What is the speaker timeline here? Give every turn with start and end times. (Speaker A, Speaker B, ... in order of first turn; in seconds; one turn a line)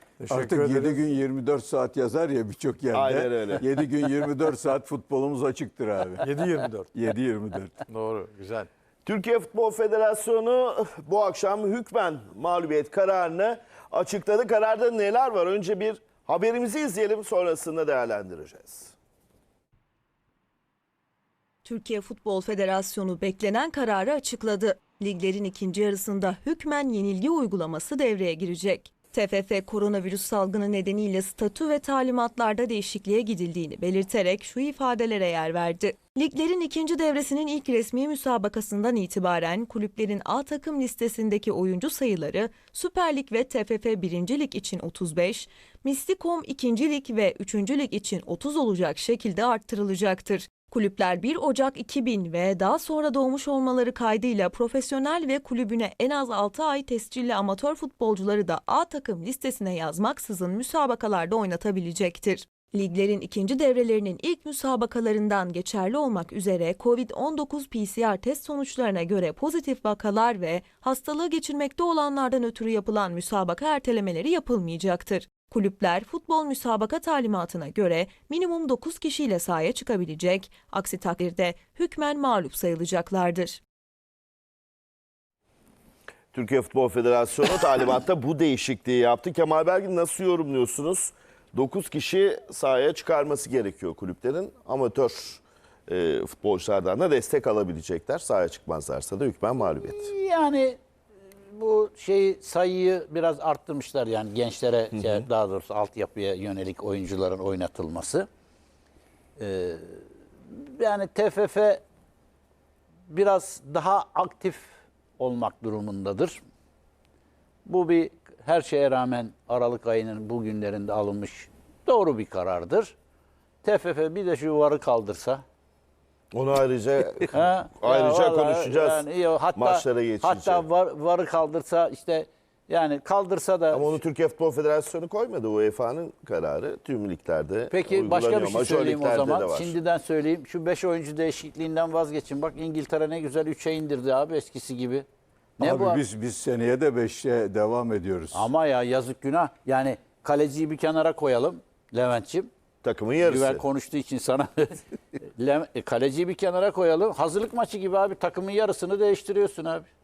Speaker A: 0.2-1.0
Speaker B: 0.3-6.2
Speaker C: 2.9-3.6
Speaker A: 6.2-6.9
Speaker B: 6.9-7.8
Speaker A: 7.9-8.7
Speaker C: 9.0-18.9
Speaker D: 21.6-83.6
Speaker C: 86.3-100.1
Speaker E: 99.9-100.8
Speaker E: 101.5-108.3
Speaker C: 104.9-105.2
Speaker E: 109.4-111.8
Speaker E: 113.1-116.4
Speaker E: 117.6-122.9
Speaker E: 123.6-125.4
Speaker C: 126.3-130.6
Speaker E: 127.3-133.9
Speaker C: 133.7-139.8
Speaker E: 137.7-145.1
Speaker E: 145.6-146.0
Speaker B: 145.6-148.5
Speaker E: 148.3-152.5
Speaker C: 152.8-153.6
Speaker E: 153.2-159.9